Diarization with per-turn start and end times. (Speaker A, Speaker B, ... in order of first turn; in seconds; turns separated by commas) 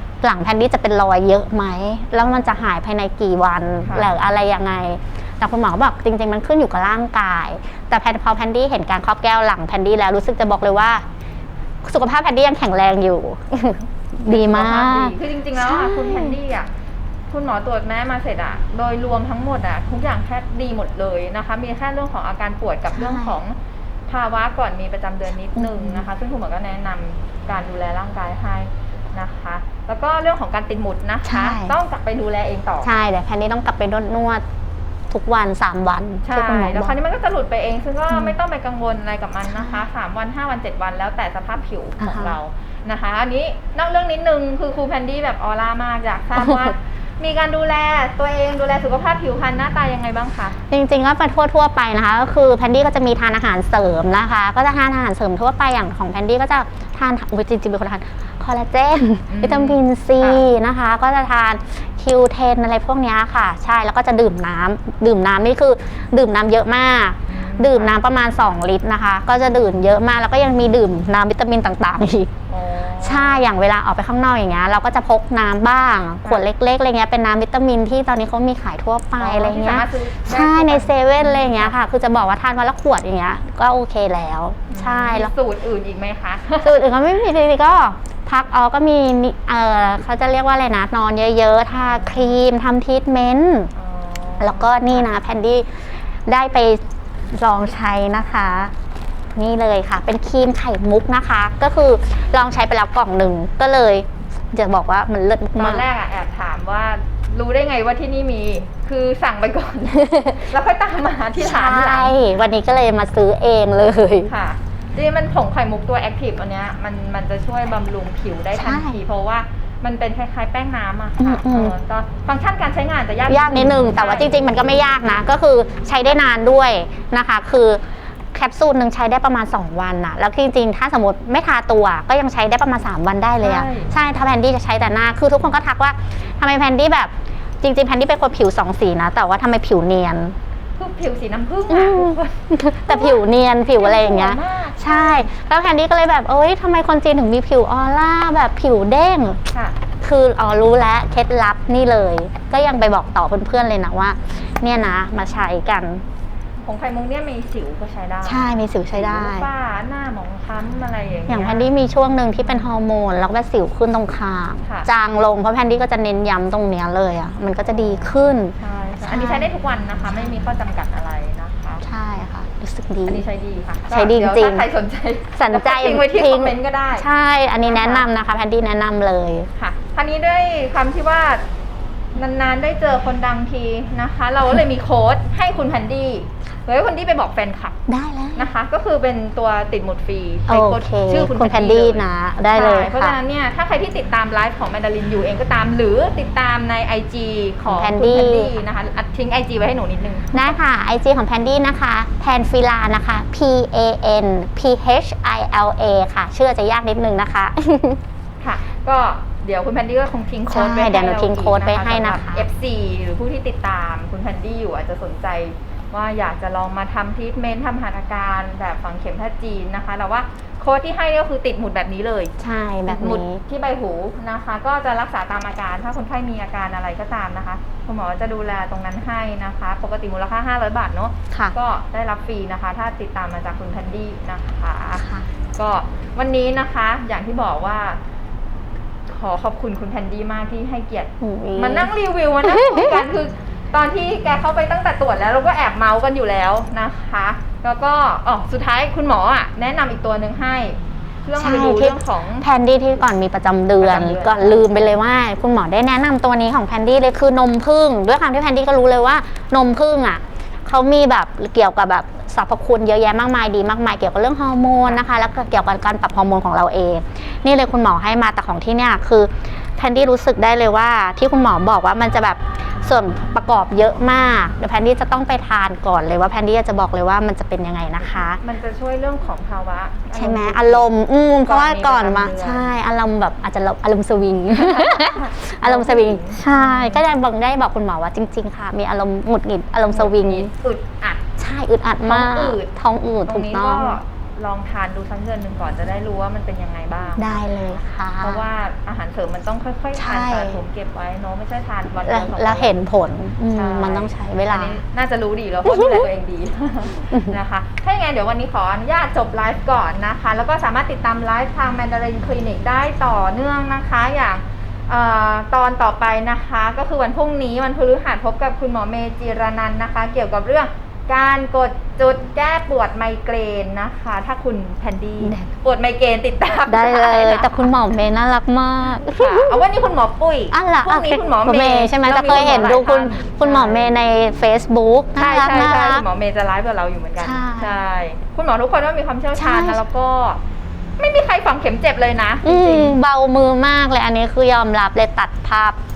Speaker A: 0.2-11.0, Speaker B: 2.2-2.5, Speaker B: 3.8-4.1, Speaker A: 11.8-16.4, Speaker B: 14.3-16.7, Speaker B: 17.3-23.6, Speaker A: 22.9-23.4, Speaker B: 24.1-32.9, Speaker A: 25.5-26.0, Speaker A: 31.2-31.8, Speaker A: 32.8-34.4, Speaker A: 35.1-37.0, Speaker B: 36.2-50.6, Speaker A: 38.1-38.4, Speaker A: 39.5-39.8, Speaker A: 42.0-42.4, Speaker A: 46.4-46.7, Speaker A: 50.7-72.3, Speaker B: 59.3-60.4, Speaker B: 67.3-67.9, Speaker B: 72.5-73.4, Speaker A: 73.0-85.3, Speaker B: 79.2-81.7, Speaker B: 84.7-86.8, Speaker A: 86.6-93.7, Speaker B: 91.8-92.4, Speaker B: 93.7-95.1, Speaker A: 94.4-98.7, Speaker A: 99.3-105.8, Speaker B: 105.6-112.1, Speaker A: 110.0-110.5, Speaker A: 111.3-114.3, Speaker B: 114.3-124.4, Speaker A: 118.5-119.0, Speaker A: 121.2-121.7, Speaker A: 123.3-127.8, Speaker A: 128.3-140.3, Speaker B: 133.4-133.9, Speaker B: 140.8-143.2, Speaker A: 141.7-149.4, Speaker B: 143.8-145.3, Speaker A: 150.0-156.0, Speaker B: 156.6-161.7, Speaker A: 158.2-159.5, Speaker A: 161.3-169.5, Speaker B: 167.7-171.8, Speaker A: 171.8-173.2, Speaker B: 173.1-177.1, Speaker A: 173.9-174.7, Speaker A: 175.3-179.5, Speaker B: 177.6-178.1, Speaker B: 179.6-181.4, Speaker B: 182.1-187.8, Speaker A: 187.9-188.5, Speaker B: 188.3-200.6, Speaker A: 190.5-193.2, Speaker A: 197.7-198.5, Speaker A: 200.3-208.0, Speaker B: 208.4-222.3, Speaker A: 210.5-212.4, Speaker A: 222.4-223.4, Speaker B: 222.9-235.0, Speaker A: 235.0-235.3, Speaker B: 235.5-238.0, Speaker B: 239.1-252.5, Speaker A: 241.2-241.9, Speaker A: 242.4-243.0, Speaker A: 251.4-278.4, Speaker B: 253.8-254.9, Speaker B: 278.0-280.9, Speaker A: 280.1-290.5, Speaker B: 281.4-282.7, Speaker B: 284.5-287.0, Speaker B: 289.9-291.2, Speaker A: 291.4-294.0, Speaker B: 292.0-292.7, Speaker B: 293.2-302.7, Speaker A: 297.2-298.4, Speaker A: 299.9-300.6, Speaker A: 302.1-304.8, Speaker B: 303.5-327.7, Speaker A: 305.6-306.1, Speaker A: 325.2-325.5, Speaker A: 326.7-329.6, Speaker B: 328.9-333.9, Speaker A: 330.5-336.0, Speaker B: 335.1-340.4, Speaker A: 337.2-337.8, Speaker A: 339.3-339.8, Speaker B: 341.0-343.0, Speaker A: 342.4-345.8